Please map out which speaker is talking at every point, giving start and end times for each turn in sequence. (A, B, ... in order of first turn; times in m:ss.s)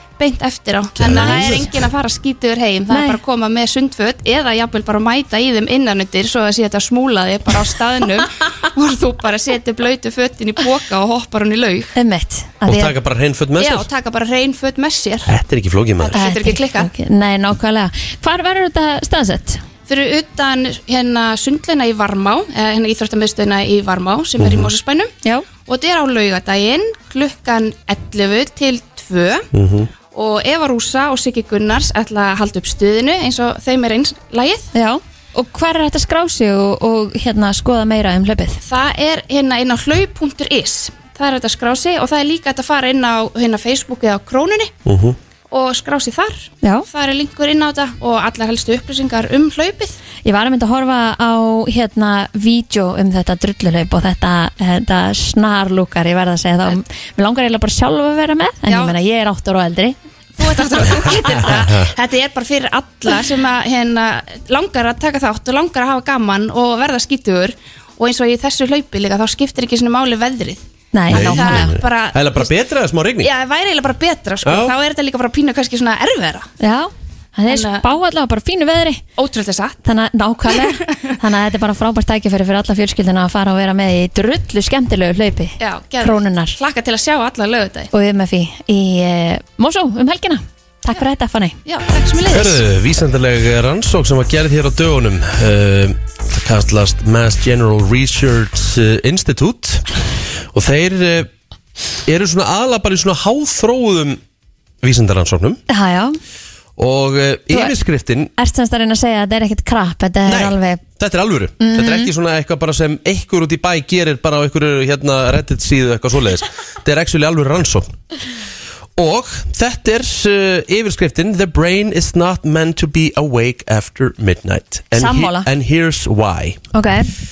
0:00.2-0:11.9 A
0:01.0-0:01.7 B
0:01.0-0:01.7 C
0:02.9-0:03.2 C
0:11.9-0:13.0 C
0:12.6-0:13.9 B
0:13.6-0:15.3 A
0:15.2-0:16.2 B
0:16.0-0:16.9 A
0:16.1-0:19.6 C
0:19.9-0:25.1 A
0:24.4-0:24.7 B
0:25.6-0:29.5 A
0:29.5-0:29.9 B
0:30.1-0:34.7 A
0:34.7-0:38.6 C
0:38.6-0:44.7 A
0:44.8-0:45.2 B
0:45.5-0:50.0 A
0:46.6-0:46.9 C
0:50.2-1:00.0 C
0:58.7-0:59.0 A
1:00.4-1:12.5 A
1:01.0-1:01.9 B
1:10.9-1:11.7 C
1:11.1-1:13.3 B
1:13.2-1:16.5 A
1:14.4-1:14.7 B
1:16.6-1:19.0 C
1:17.5-1:17.9 A
1:19.2-1:19.8 A
1:19.8-1:26.6 C
1:20.5-1:20.9 A
1:25.6-1:27.9 A
1:27.9-1:31.6 C
1:31.6-1:32.6 A
1:32.3-1:39.9 B
1:40.5-1:41.3 B
1:42.0-1:44.2 B
1:44.8-1:45.6 B
1:45.7-1:46.2 C
1:46.8-1:48.3 B
1:48.4-1:50.8 C
1:50.2-1:57.9 B
1:51.6-1:52.1 C
1:59.0-2:06.6 B
2:04.9-2:05.5 C
2:06.7-2:07.1 C